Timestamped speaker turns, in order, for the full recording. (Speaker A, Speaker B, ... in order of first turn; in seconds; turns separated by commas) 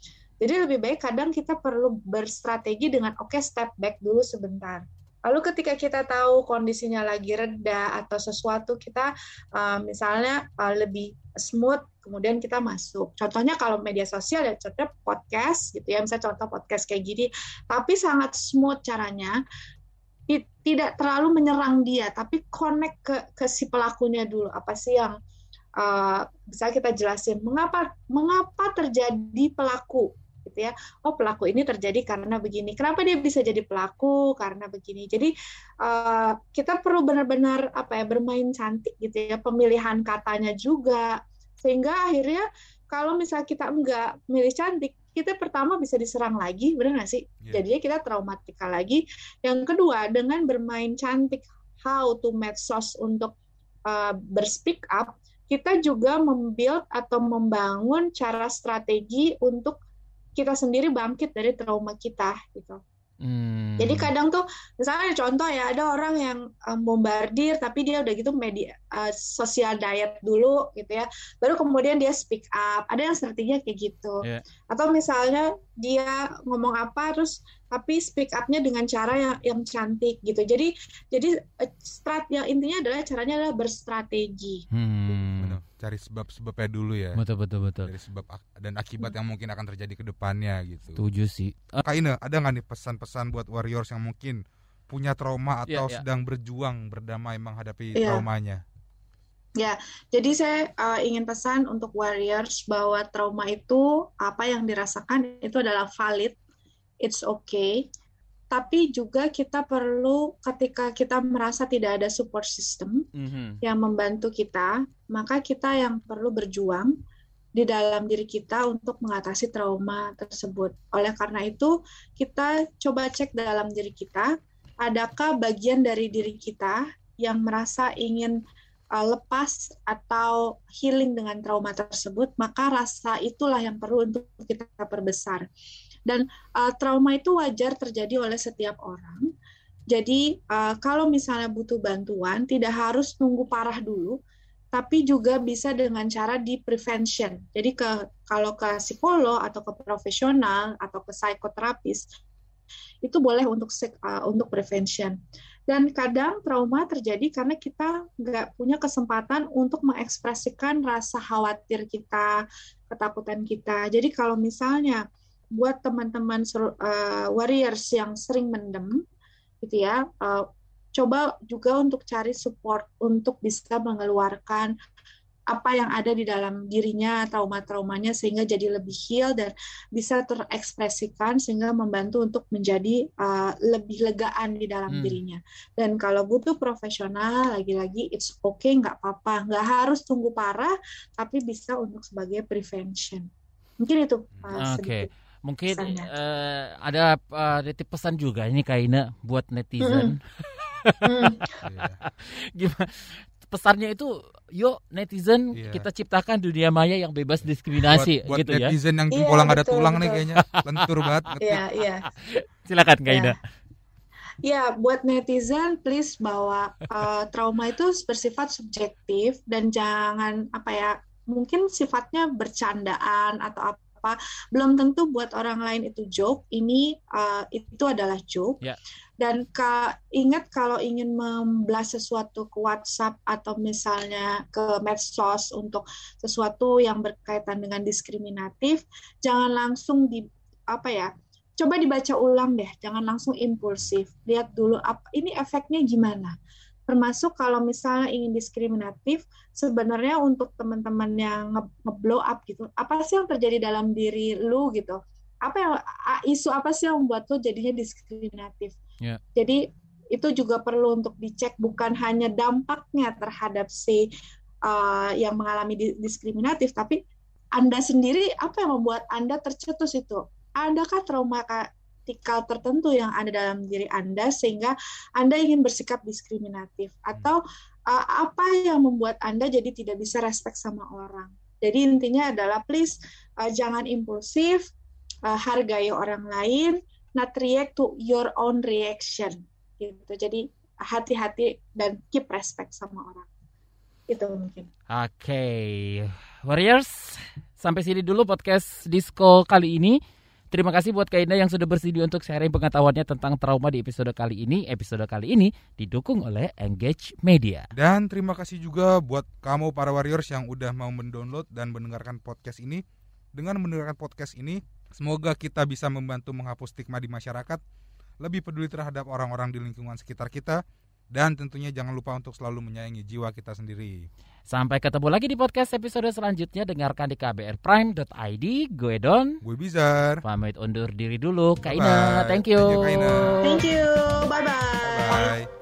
Speaker A: 0.4-19.4, Speaker A: 20.3-25.1, Speaker A: 25.8-35.3, Speaker A: 35.8-53.3, Speaker A: 53.9-59.8, Speaker A: 60.4-62.8, Speaker B: 63.2-64.1, Speaker A: 63.8-74.2, Speaker A: 74.7-84.6, Speaker B: 84.7-85.6, Speaker C: 85.4-87.2, Speaker B: 87.2-87.9, Speaker C: 87.8-91.0, Speaker B: 91.0-91.8, Speaker C: 91.8-98.6, Speaker B: 95.7-96.0, Speaker A: 98.0-98.2, Speaker A: 99.6-106.3, Speaker A: 107.0-107.8, Speaker A: 108.5-113.0, Speaker B: 113.1-113.6, Speaker A: 113.6-116.9, Speaker A: 117.5-124.3, Speaker A: 124.8-128.4, Speaker A: 128.9-135.4, Speaker A: 136.1-139.2, Speaker A: 139.9-144.2, Speaker A: 144.7-152.1, Speaker A: 153.0-155.2, Speaker A: 155.7-165.0, Speaker A: 165.6-169.0, Speaker A: 169.6-174.7, Speaker A: 175.5-193.3, Speaker B: 184.9-185.2, Speaker A: 193.8-195.1, Speaker C: 194.3-194.6, Speaker B: 194.5-201.0, Speaker A: 195.7-196.1, Speaker A: 199.8-200.1, Speaker A: 201.0-201.6, Speaker C: 201.6-202.0, Speaker B: 202.6-208.7, Speaker C: 205.5-205.8, Speaker C: 207.8-211.6, Speaker A: 209.1-210.3, Speaker B: 210.8-211.1, Speaker A: 211.4-212.1, Speaker B: 212.1-213.3, Speaker A: 213.1-213.3, Speaker A: 214.4-228.6, Speaker A: 229.2-246.3, Speaker A: 246.9-258.8, Speaker A: 259.4-259.6, Speaker A: 260.1-264.0, Speaker A: 264.6-267.0, Speaker A: 267.6-284.7, Speaker A: 285.2-293.2, Speaker A: 294.1-294.7, Speaker B: 294.9-300.0, Speaker B: 300.5-307.7, Speaker C: 307.8-312.8, Speaker C: 313.3-317.6, Speaker C: 318.2-320.6, Speaker C: 321.1-323.9, Speaker B: 324.5-329.4, Speaker C: 329.4-330.2, Speaker B: 330.2-333.3, Speaker C: 331.7-333.4, Speaker A: 333.4-335.3, Speaker C: 334.8-335.5